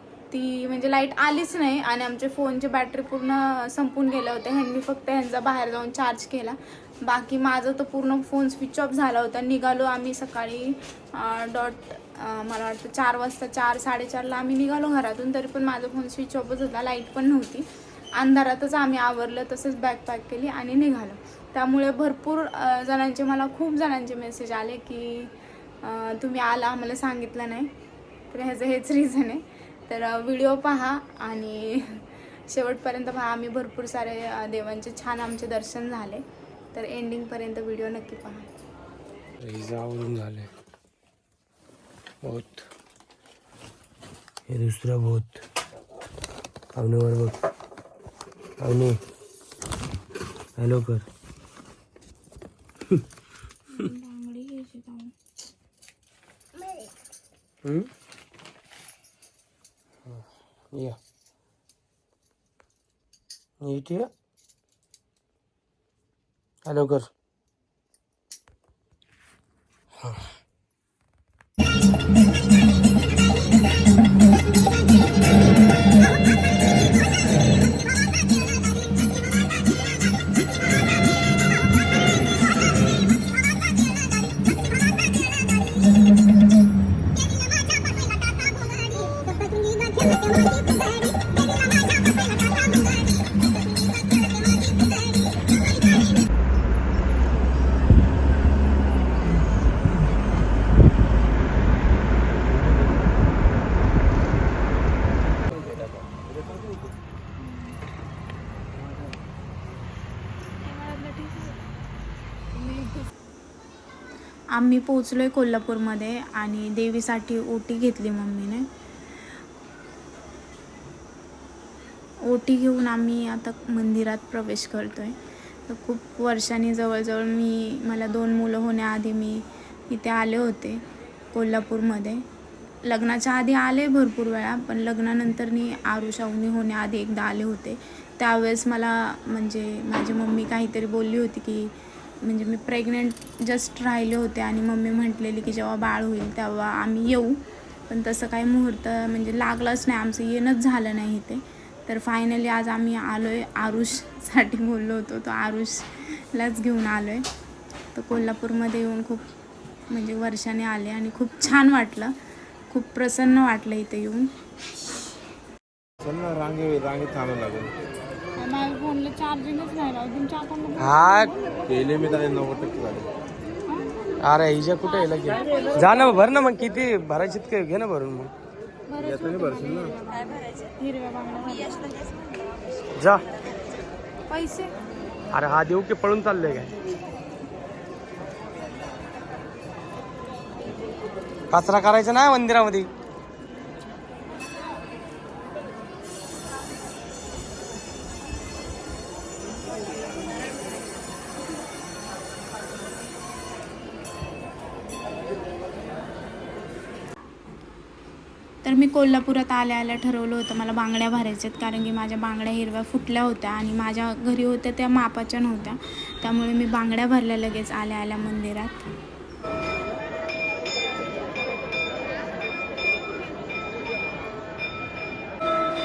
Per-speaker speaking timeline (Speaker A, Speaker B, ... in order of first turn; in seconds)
Speaker A: 0.3-27.7, 28.3-36.2, 36.7-38.5, 53.7-55.1, 107.5-107.7, 110.7-111.5, 114.5-118.7, 122.2-125.2, 125.7-130.8, 131.3-132.2, 132.8-141.7, 142.2-157.2, 157.9-159.2, 159.9-162.2, 162.7-164.3, 168.4-171.4, 178.9-182.1, 184.3-184.7, 208.6-218.8
Speaker B: 39.4-40.5, 42.2-42.7, 44.5-45.4, 46.8-47.4, 48.6-49.0, 50.6-51.1, 60.1-61.0, 63.6-64.1, 66.7-67.1, 170.8-171.3, 174.2-178.3, 183.0-183.2, 185.3-186.7, 191.5-192.9
Speaker C: 166.0-167.7, 171.7-173.1, 179.0-179.9